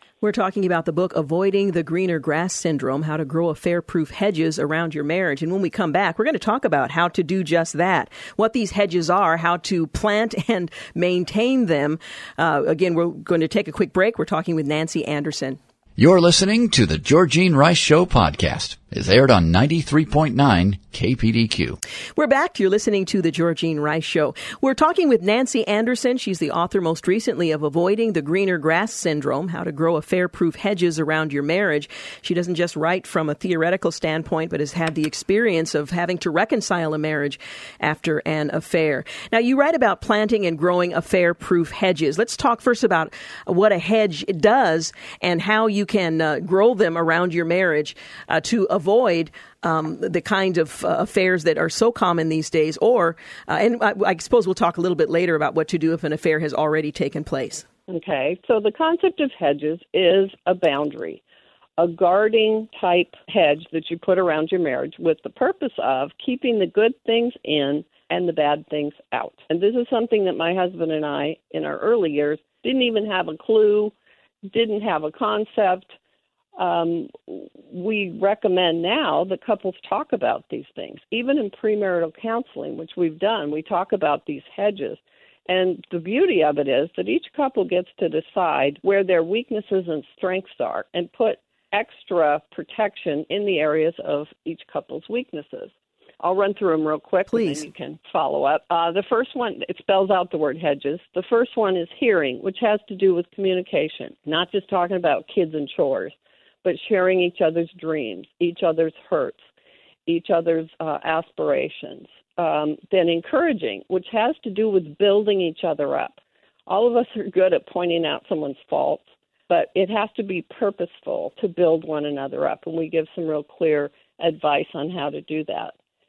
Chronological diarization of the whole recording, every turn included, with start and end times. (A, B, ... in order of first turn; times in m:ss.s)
0:00.2-0:15.6 A
0:16.0-0:21.8 B
0:22.2-0:57.6 A
0:57.9-1:01.2 C
1:01.8-1:13.9 C
1:14.5-1:15.9 C
1:16.6-1:49.4 C
1:37.3-1:37.6 A
1:50.0-2:05.7 C